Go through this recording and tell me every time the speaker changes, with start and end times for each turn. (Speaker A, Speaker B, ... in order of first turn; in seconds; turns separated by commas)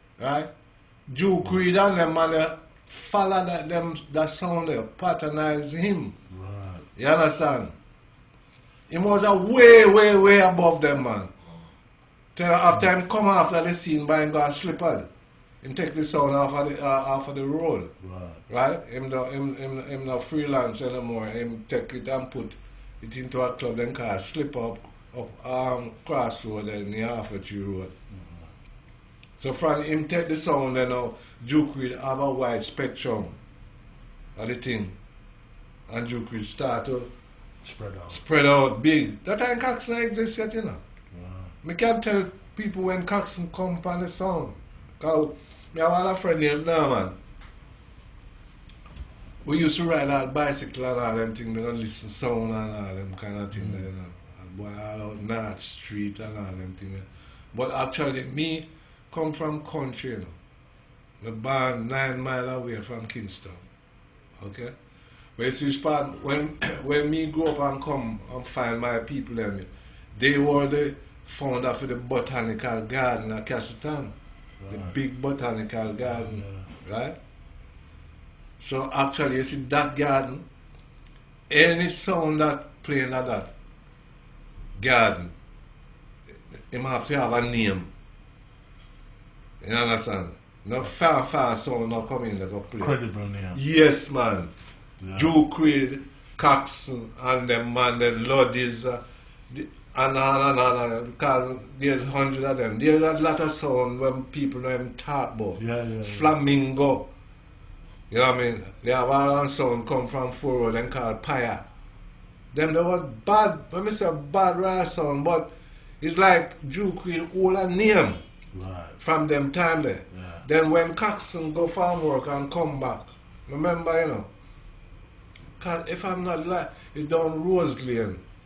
Speaker A: 0.2-0.5, Speaker A: 1.1-6.2, Speaker B: 6.3-6.9, Speaker A: 7.0-7.7, Speaker A: 8.9-11.3, Speaker A: 12.3-15.1, Speaker A: 15.6-17.9, Speaker B: 18.0-18.4, Speaker A: 18.5-27.9, Speaker B: 28.1-28.5, Speaker A: 29.4-33.4, Speaker A: 34.4-35.0, Speaker A: 35.9-37.1, Speaker B: 37.6-38.2, Speaker A: 38.1-40.8, Speaker B: 41.1-41.5, Speaker A: 41.6-47.1, Speaker A: 49.5-60.4, Speaker B: 53.5-53.8, Speaker A: 61.2-63.7, Speaker A: 64.4-64.7, Speaker A: 65.4-74.1, Speaker B: 74.6-74.9, Speaker A: 74.7-77.2, Speaker B: 76.1-76.7, Speaker A: 78.6-80.4, Speaker A: 81.5-83.5, Speaker A: 84.8-85.3, Speaker A: 86.5-87.9, Speaker A: 89.6-93.0, Speaker B: 92.8-93.6, Speaker A: 93.5-94.5, Speaker B: 95.0-95.3, Speaker A: 95.2-107.1, Speaker B: 105.6-106.3, Speaker A: 108.1-111.6, Speaker A: 112.5-118.2, Speaker B: 118.5-119.0, Speaker A: 119.0-124.3, Speaker B: 120.1-120.4, Speaker A: 125.6-128.2